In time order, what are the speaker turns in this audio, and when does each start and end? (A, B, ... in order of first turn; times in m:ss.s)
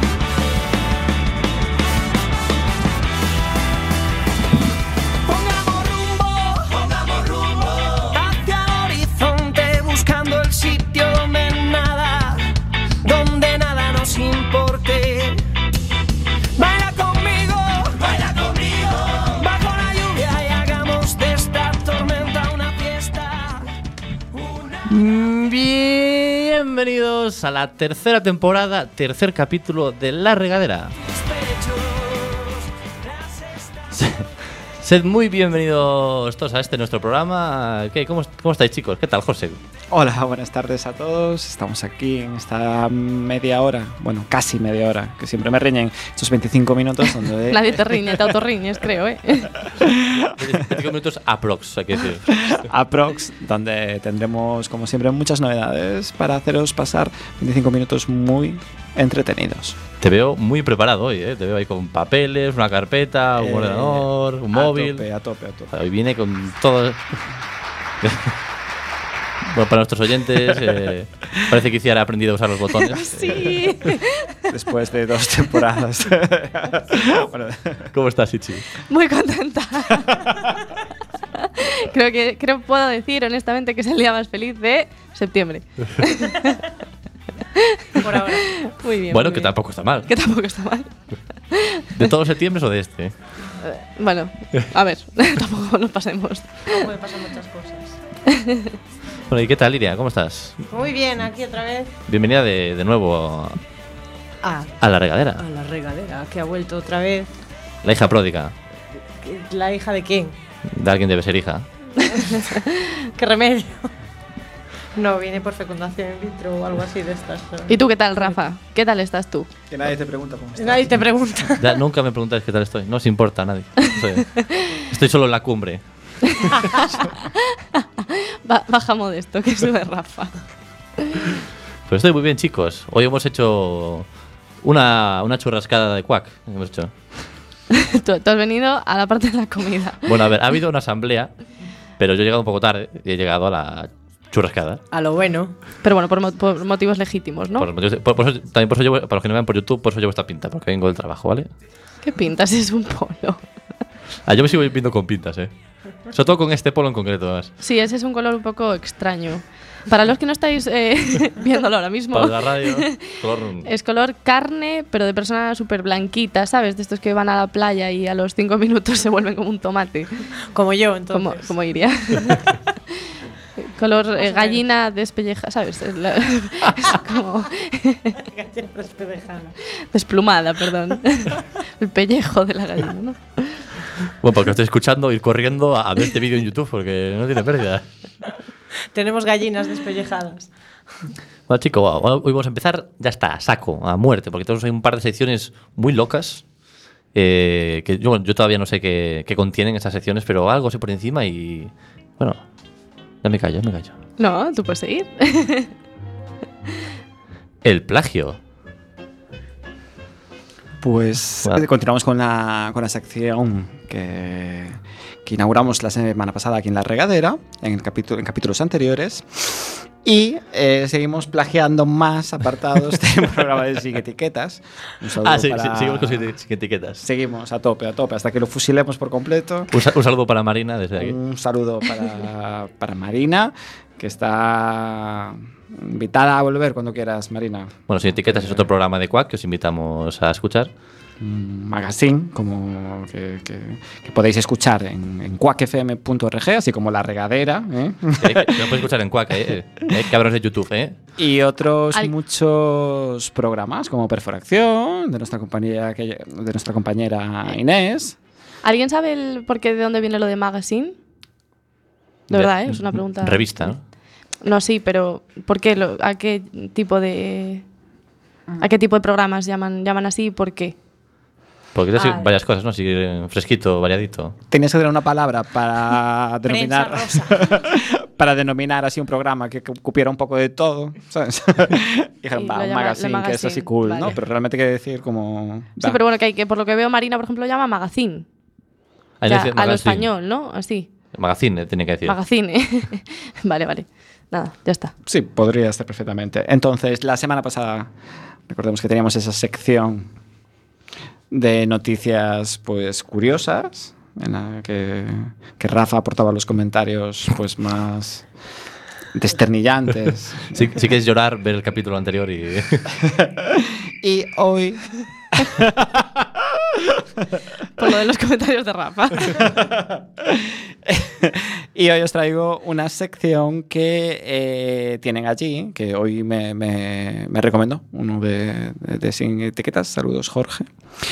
0:05.3-0:12.4 A
0:13.0-0:15.4 A
0:16.6-0:23.7 A
0:24.3-0:24.9 A
0:24.9-0:30.9 B
0:31.0-0:34.0 A
0:34.0-0:34.3 B
0:34.8-0:39.6 B
0:39.9-0:48.3 C
0:47.5-0:49.6 D
0:49.7-0:50.7 C
0:50.3-0:52.6 B
0:52.3-0:59.8 C
1:00.0-1:05.0 B
1:03.3-1:05.7 C
1:05.7-1:07.0 B
1:08.0-1:08.3 B
1:09.5-1:13.6 B
1:12.9-1:14.4 D
1:14.5-1:17.9 C
1:17.9-1:18.7 B
1:18.9-1:20.3 D
1:20.1-1:20.6 C
1:21.4-1:26.6 D
1:27.5-1:29.5 D
1:28.0-1:28.5 E
1:29.1-1:30.1 B
1:30.1-1:30.9 D
1:31.5-1:32.1 D
1:32.0-1:33.1 B
1:33.6-1:36.9 D
1:36.7-1:38.0 E
1:38.3-1:38.8 D
1:39.3-1:40.6 B
1:40.7-1:41.9 E
1:42.1-1:43.6 B
1:44.4-1:44.7 E
1:44.8-1:45.4 B
1:45.4-1:47.3 E
1:47.8-1:48.5 B
1:49.2-1:50.4 E
1:50.7-1:51.6 B
1:52.1-1:53.9 E
1:55.0-1:57.7 E
1:57.7-1:59.5 D
1:59.7-2:00.9 C
2:00.6-2:01.8 E
2:01.6-2:06.5 B
2:04.4-2:04.7 D
2:06.3-2:10.3 D
2:11.0-2:11.3 D
2:11.9-2:14.1 B
2:14.6-2:16.9 B
2:17.7-2:20.1 D
2:20.1-2:21.3 B
2:22.0-2:24.8 B
2:24.9-2:25.5 E
2:25.8-2:27.7 D
2:27.6-2:31.5 B
2:32.0-2:33.4 D
2:34.3-2:35.5 B
2:36.1-2:37.5 B
2:37.6-2:50.3 D
2:42.1-2:43.7 B
2:50.5-2:51.5 E
2:51.1-2:58.2 D
2:54.2-2:54.6 E
2:58.2-2:59.6 E
2:59.7-3:03.6 D
3:04.2-3:07.8 B
3:08.9-3:10.5 E
3:11.5-3:16.4 B
3:17.1-3:22.4 B
3:23.2-3:24.0 B
3:24.2-3:25.7 D
3:27.6-3:28.4 B
3:30.8-3:46.3 C
3:45.2-3:47.0 B
3:47.0-3:49.7 C
3:49.7-3:51.2 B
3:51.0-3:57.7 C
3:57.9-4:00.7 B
4:01.2-4:08.8 C
4:08.2-4:11.0 B
4:11.2-4:18.2 C
4:18.6-4:21.0 D
4:22.3-4:23.8 B
4:22.3-4:23.7 D
4:24.4-4:27.6 D
4:28.6-4:30.8 D
4:31.8-4:34.4 B
4:32.0-4:32.3 E
4:34.5-4:46.0 C
4:36.5-4:37.6 E
4:42.4-4:44.1 D
4:45.8-4:48.3 D
4:49.2-4:50.1 B
4:49.3-4:50.9 D
4:51.1-4:52.2 B
4:52.1-4:54.9 D
4:55.1-4:57.9 C
4:58.5-5:00.1 C
5:01.3-5:08.3 C
5:09.1-5:10.6 C
5:10.5-5:12.8 B
5:13.0-5:17.2 C
5:17.8-5:19.5 D
5:19.3-5:30.7 C